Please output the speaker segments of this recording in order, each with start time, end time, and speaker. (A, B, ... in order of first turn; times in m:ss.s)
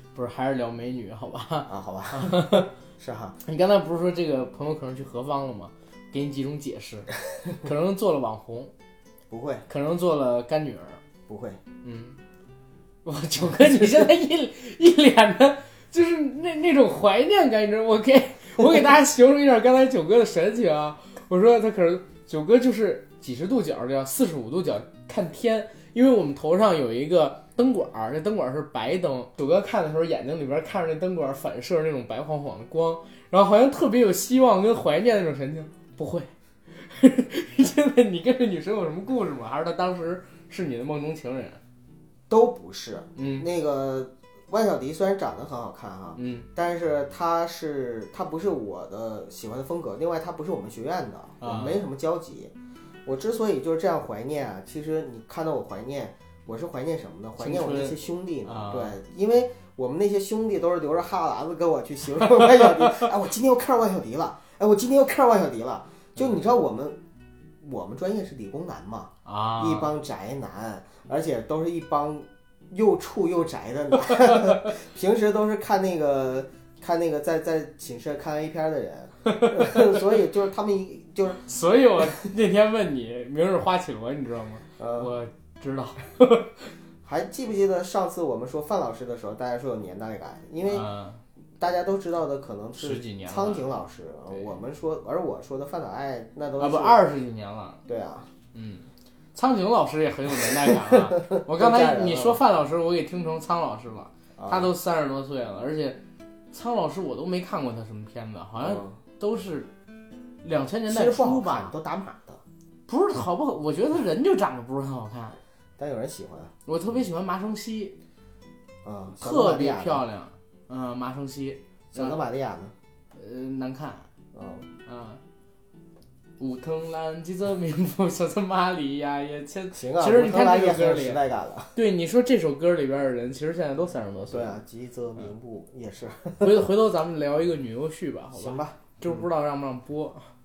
0:00.2-0:02.7 A
0:01.7-0:03.4 B
0:03.4-0:08.7 A
0:09.3-0:09.7 B
0:09.7-0:11.0 A
0:11.3-0:11.6 B
0:11.8-0:12.2 A
0:13.0-0:41.6 A
0:42.3-0:52.5 B
0:43.2-0:43.5 A
0:46.2-0:46.5 A
0:51.4-0:51.8 A
0:53.1-1:07.0 B
0:57.4-0:59.0 A
1:02.2-1:03.1 A
1:06.2-1:06.4 A
1:07.6-1:21.4 B
1:09.2-1:09.9 A
1:14.3-1:14.7 A
1:19.3-1:20.0 A
1:21.4-1:26.7 A
1:24.8-1:25.1 B
1:27.0-1:30.9 B
1:30.7-1:31.2 A
1:31.6-1:37.0 B
1:32.8-1:33.7 A
1:34.3-1:34.6 A
1:36.6-1:37.8 A
1:37.9-1:38.3 B
1:38.5-1:49.7 A
1:40.4-1:42.4 B
1:44.4-1:44.7 B
1:48.6-1:49.0 B
1:50.4-1:51.7 A
1:50.9-1:52.4 B
1:52.9-1:55.4 A
1:55.8-1:56.5 B
1:56.7-1:58.0 A
1:58.8-2:00.0 B
1:59.2-2:02.2 A
2:01.9-2:02.7 B
2:03.2-2:04.1 A
2:04.3-2:04.7 B
2:04.9-2:05.2 A
2:06.4-2:11.2 A
2:09.7-2:11.8 B
2:11.7-2:14.6 A
2:14.3-2:16.6 B
2:16.4-2:20.3 A
2:18.3-2:19.2 B